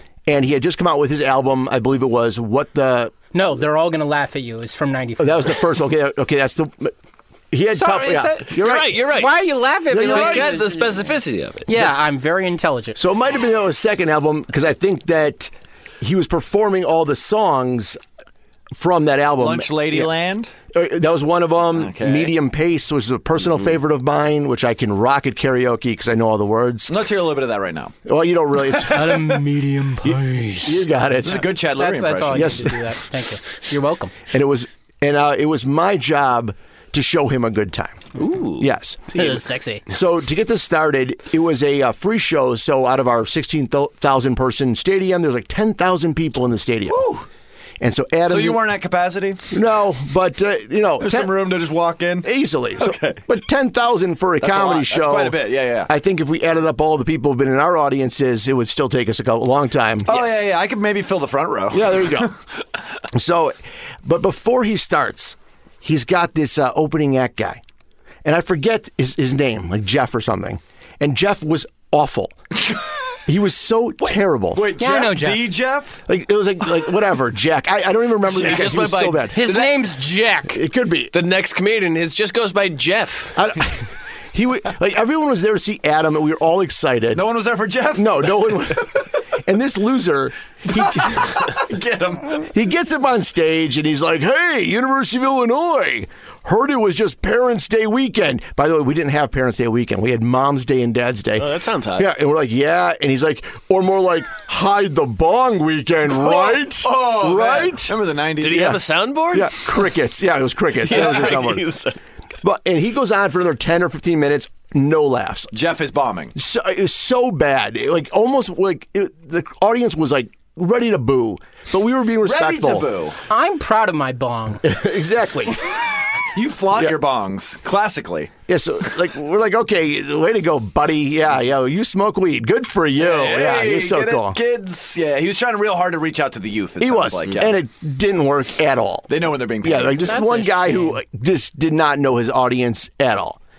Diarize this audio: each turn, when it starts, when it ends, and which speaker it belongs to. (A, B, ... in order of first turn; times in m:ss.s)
0:00.3-0:03.1 A
0:03.3-0:05.6 B
0:05.2-0:06.9 A
0:07.5-0:09.0 A
0:07.7-0:11.0 B
0:08.6-0:11.7 C
0:09.9-0:10.6 A
0:11.7-0:13.0 B
0:13.0-0:18.0 A
0:18.7-0:20.1 A
0:19.4-0:20.5 D
0:20.7-0:26.9 A
0:21.7-0:22.4 D
0:26.9-0:28.0 D
0:28.0-0:29.4 A
0:28.7-0:29.4 D
0:28.9-0:30.8 B
0:30.0-0:31.6 A
0:31.2-0:32.7 D
0:31.8-0:34.1 B
0:32.3-0:32.8 A
0:34.3-0:38.0 A
0:38.2-0:38.7 C
0:38.6-0:39.1 A
0:39.1-0:39.8 B
0:39.9-0:47.2 A
0:47.8-0:48.6 A
0:48.3-0:49.4 D
0:49.5-0:51.3 A
0:51.0-0:53.3 D
0:52.2-1:00.4 A
0:54.4-0:55.9 D
1:00.0-1:02.3 D
1:01.7-1:02.3 A
1:03.1-1:07.6 A
1:08.2-1:12.4 A
1:13.3-1:14.7 A
1:14.0-1:16.0 D
1:14.8-1:15.5 B
1:16.1-1:19.7 A
1:18.3-1:18.8 D
1:18.3-1:19.7 C
1:19.3-1:20.6 B
1:20.5-1:21.1 A
1:21.1-1:23.4 C
1:23.4-1:27.2 A
1:27.1-1:28.4 D
1:28.0-1:31.5 A
1:30.7-1:32.4 D
1:32.4-1:47.9 A
1:41.4-1:42.1 C
1:46.1-1:48.8 D
1:48.4-1:49.7 C
1:48.5-1:51.7 A
1:50.8-1:52.0 C
1:50.9-1:51.4 D
1:52.4-1:55.5 A
1:55.5-1:56.3 D
1:56.4-2:02.9 A
2:02.2-2:03.2 D
2:03.3-2:04.6 B
2:04.6-2:05.7 A
2:06.3-2:08.3 D
2:08.5-2:14.4 A
2:13.0-2:17.6 D
2:16.8-2:19.1 A
2:19.1-2:20.3 D
2:19.6-2:23.4 A
2:20.0-2:21.0 B